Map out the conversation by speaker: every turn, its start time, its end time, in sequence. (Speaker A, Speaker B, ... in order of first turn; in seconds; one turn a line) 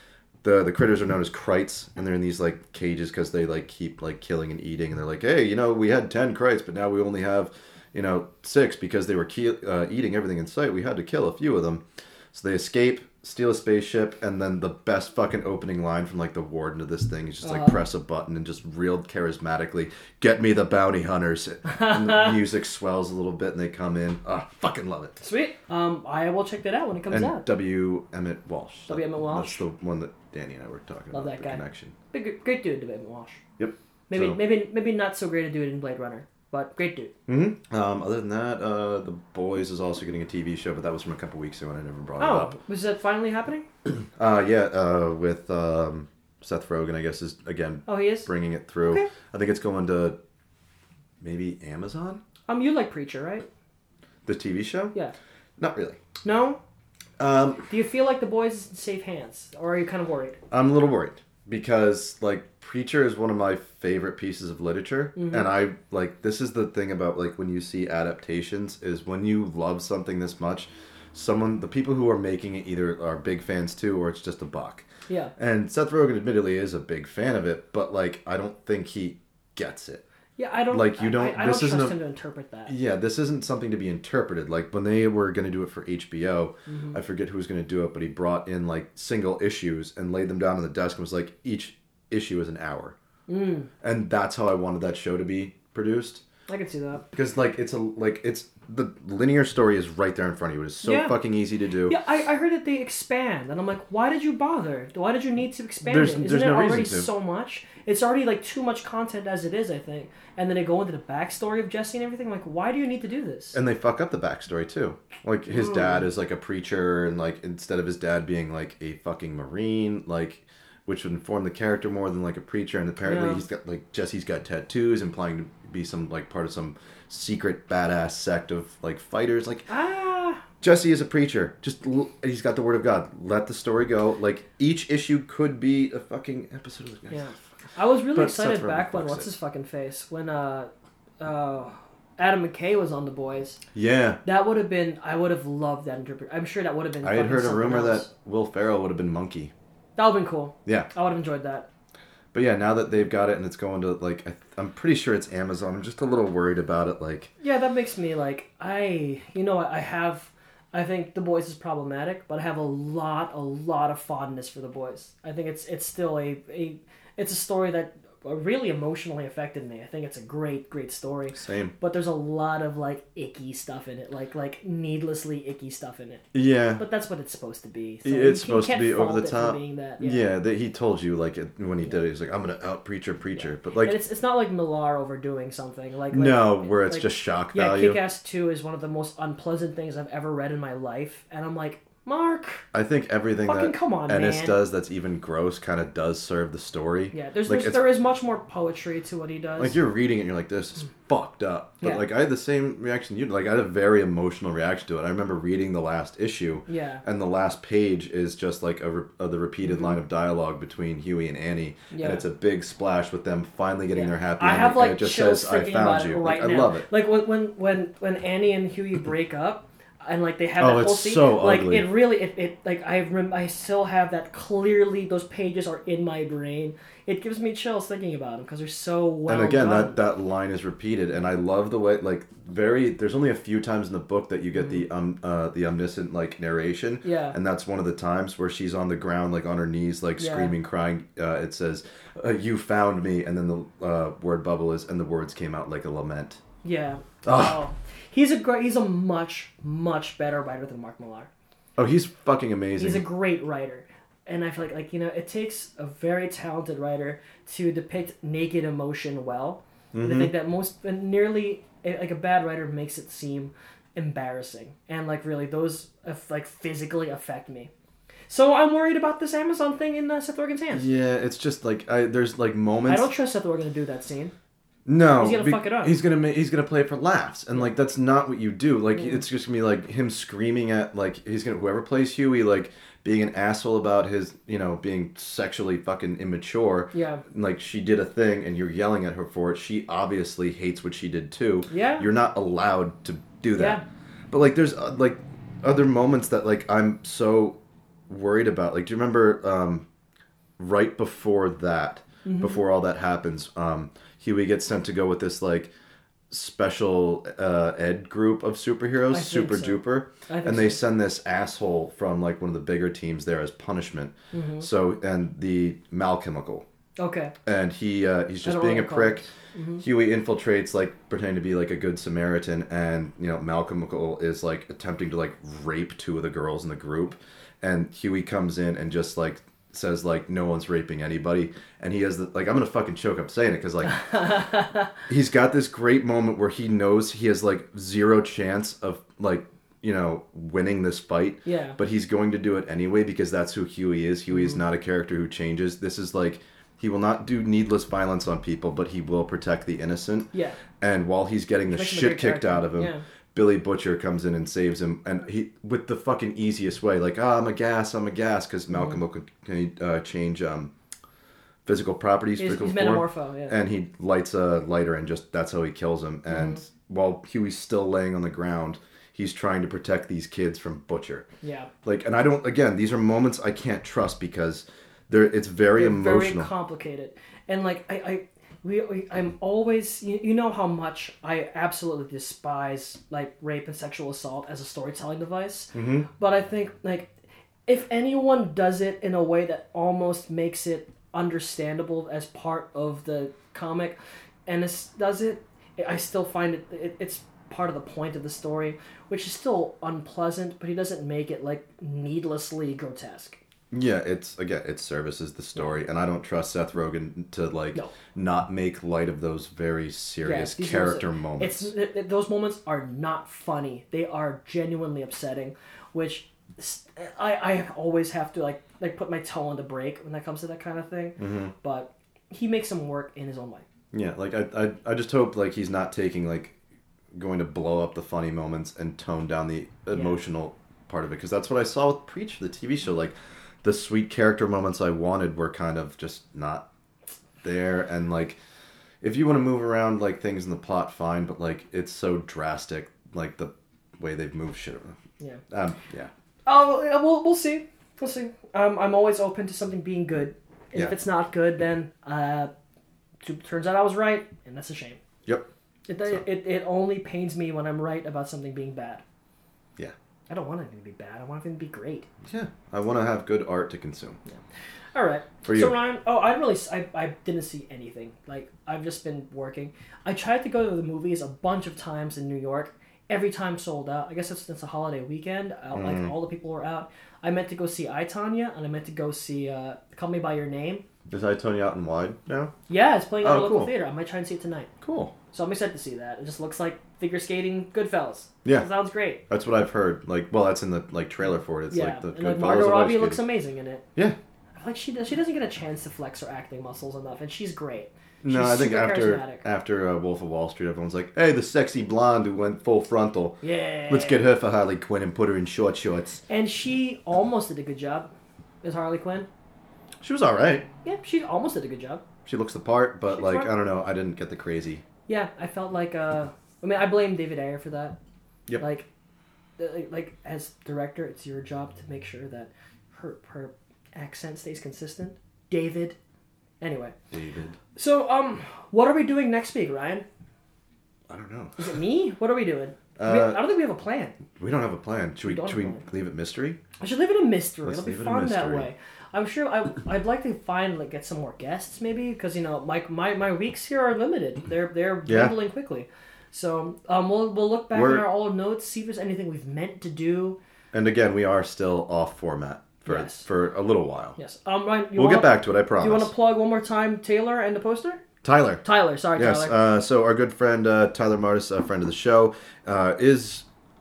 Speaker A: 0.4-25.2
Speaker B: 17.4-17.8
Speaker B: 21.7-22.4
Speaker B: 25.2-27.5
Speaker A: 27.1-31.9
Speaker B: 28.9-29.6
Speaker B: 31.1-33.4
Speaker A: 33.6-34.4
Speaker B: 34.1-37.1
Speaker A: 37.3-42.6
Speaker B: 42.2-43.7
Speaker A: 44.2-50.2
Speaker B: 47.9-48.3
Speaker B: 48.8-49.1
Speaker A: 51.2-52.2
Speaker B: 52.5-53.5
Speaker A: 54.3-55.0
Speaker A: 55.6-56.0
Speaker B: 56.2-56.6
Speaker A: 57.2-57.7
Speaker B: 57.7-60.4
Speaker A: 60.5-74.9
Speaker B: 65.2-65.5
Speaker A: 75.4-80.0
Speaker B: 80.4-82.7
Speaker A: 80.7-82.0
Speaker A: 82.7-93.0
Speaker B: 86.7-87.0
Speaker B: 93.3-93.7
Speaker A: 93.8-96.2
Speaker B: 96.5-97.0
Speaker A: 97.1-102.0
Speaker B: 100.8-101.2
Speaker B: 101.9-113.6
Speaker A: 105.8-107.1
Speaker A: 113.5-129.7
Speaker B: 115.5-116.1
Speaker B: 123.0-123.4
Speaker B: 129.7-130.4
Speaker A: 130.6-137.3
Speaker B: 137.1-143.6
Speaker A: 138.1-139.3
Speaker A: 143.7-144.2
Speaker B: 144.2-148.1
Speaker A: 147.0-149.5
Speaker B: 150.0-151.7
Speaker A: 152.3-157.3
Speaker B: 157.4-176.2
Speaker A: 171.3-171.7
Speaker A: 176.3-176.8
Speaker B: 176.8-180.3
Speaker A: 178.0-184.0
Speaker B: 183.3-192.6
Speaker A: 186.1-188.0
Speaker A: 192.7-197.9
Speaker B: 193.4-194.6
Speaker B: 197.1-199.8
Speaker A: 199.6-216.9
Speaker B: 201.8-202.1
Speaker B: 206.7-207.0
Speaker B: 209.6-210.0
Speaker B: 211.9-212.3
Speaker B: 213.9-230.0
Speaker A: 220.6-221.9
Speaker A: 229.3-246.4
Speaker B: 237.0-237.4
Speaker B: 240.2-240.6
Speaker B: 246.6-251.3
Speaker A: 247.2-247.6
Speaker A: 251.8-253.1
Speaker B: 252.8-267.7
Speaker A: 259.9-260.3
Speaker B: 268.3-270.9
Speaker A: 270.7-273.1
Speaker B: 272.9-274.3
Speaker A: 274.9-297.6
Speaker B: 275.2-276.0
Speaker B: 279.0-279.2
Speaker B: 286.9-287.2
Speaker B: 291.7-292.1
Speaker B: 293.6-293.8
Speaker A: 298.1-299.9
Speaker A: 300.6-305.7
Speaker B: 302.2-302.6
Speaker A: 306.3-316.6
Speaker B: 309.1-310.8
Speaker B: 314.3-314.7
Speaker B: 317.0-317.3
Speaker A: 317.5-319.3
Speaker B: 318.4-319.8
Speaker A: 319.8-334.1
Speaker B: 333.9-334.9
Speaker A: 335.1-350.3
Speaker B: 341.4-341.8
Speaker B: 344.3-344.6
Speaker B: 350.3-350.6
Speaker A: 350.8-360.7
Speaker B: 351.7-353.0
Speaker A: 361.7-371.3
Speaker B: 362.4-363.6
Speaker B: 366.3-366.6
Speaker B: 371.4-371.7
Speaker A: 371.8-376.5
Speaker B: 375.7-387.1
Speaker A: 385.7-386.1
Speaker B: 387.7-403.4
Speaker A: 403.7-411.7
Speaker B: 410.2-423.6
Speaker A: 421.2-421.5
Speaker A: 423.9-426.6
Speaker A: 427.1-436.7
Speaker B: 429.9-430.2
Speaker A: 437.4-438.4
Speaker A: 439.0-445.0
Speaker A: 445.5-446.1
Speaker B: 446.5-452.5
Speaker B: 453.2-455.0
Speaker B: 455.9-459.0
Speaker B: 460.3-462.1
Speaker A: 462.2-464.2
Speaker B: 464.9-480.8
Speaker A: 465.4-465.8
Speaker A: 475.7-476.2
Speaker A: 481.1-482.5
Speaker B: 482.7-484.7
Speaker A: 483.2-483.7
Speaker A: 484.8-485.1
Speaker B: 485.3-489.2
Speaker A: 489.3-493.2
Speaker B: 491.7-493.9
Speaker B: 494.6-499.5
Speaker A: 498.2-506.2
Speaker B: 503.4-504.3
Speaker B: 506.3-508.1
Speaker B: 508.6-509.3
Speaker A: 510.0-510.7
Speaker B: 510.8-512.0
Speaker A: 512.2-514.8
Speaker B: 513.1-513.5
Speaker B: 515.1-518.0
Speaker B: 518.6-518.9
Speaker B: 519.6-526.0
Speaker B: 526.6-526.9
Speaker A: 527.1-527.6
Speaker B: 527.8-530.1
Speaker A: 531.1-531.8
Speaker B: 531.6-534.2
Speaker A: 533.0-533.4
Speaker A: 534.3-536.6
Speaker B: 535.2-535.8
Speaker B: 536.8-550.4
Speaker A: 537.6-538.7
Speaker A: 545.1-545.4
Speaker A: 547.7-548.1
Speaker A: 550.7-554.2
Speaker B: 552.9-553.3
Speaker B: 554.2-558.0
Speaker A: 554.9-556.1
Speaker A: 558.2-563.5
Speaker B: 558.6-559.6